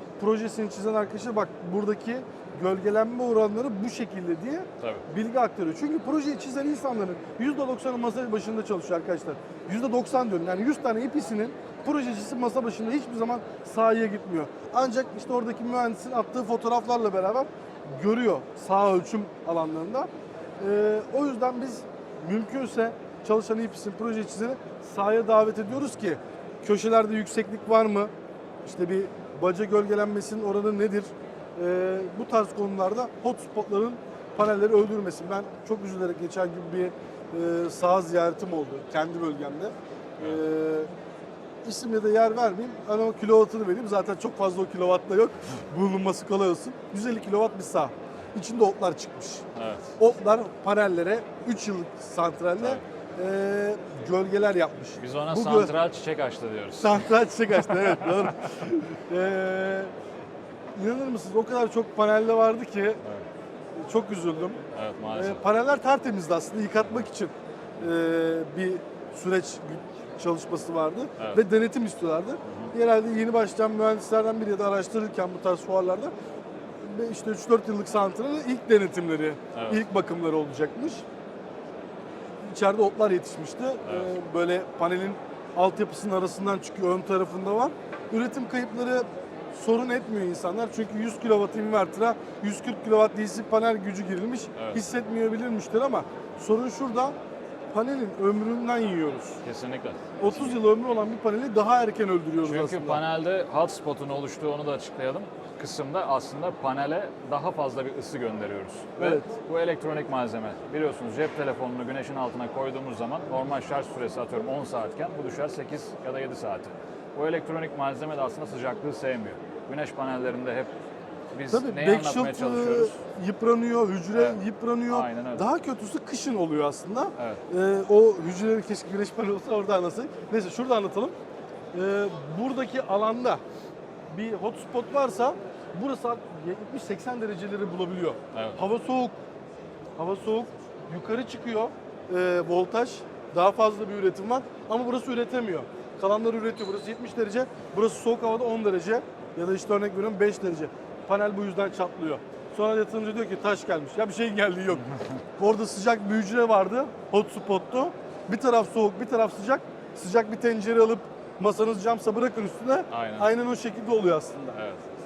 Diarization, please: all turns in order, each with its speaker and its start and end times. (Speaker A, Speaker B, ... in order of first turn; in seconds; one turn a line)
Speaker A: 0.2-20.1
Speaker B: 4.8-5.0
Speaker A: 20.6-28.1
Speaker A: 28.6-40.9
Speaker A: 41.6-49.5
Speaker B: 49.5-50.0
Speaker A: 50.0-55.7
Speaker B: 55.0-58.3
Speaker A: 56.7-59.9
Speaker A: 60.8-63.0
Speaker A: 63.8-76.1
Speaker B: 64.7-65.4
Speaker B: 72.4-72.7
Speaker A: 76.8-81.0
Speaker B: 79.5-79.8
Speaker A: 82.4-97.2
Speaker B: 83.8-84.1
Speaker B: 94.5-94.8
Speaker A: 97.7-99.4
Speaker B: 99.4-100.6
Speaker A: 100.2-103.0
Speaker B: 102.4-120.7
Speaker A: 109.0-109.3
Speaker B: 121.3-122.9
Speaker A: 121.5-131.1
Speaker B: 124.1-125.4
Speaker B: 127.2-127.4
Speaker A: 131.7-133.4
Speaker A: 134.1-139.1
Speaker B: 138.3-138.6
Speaker A: 140.0-164.6
Speaker B: 162.9-163.3
Speaker B: 164.5-164.8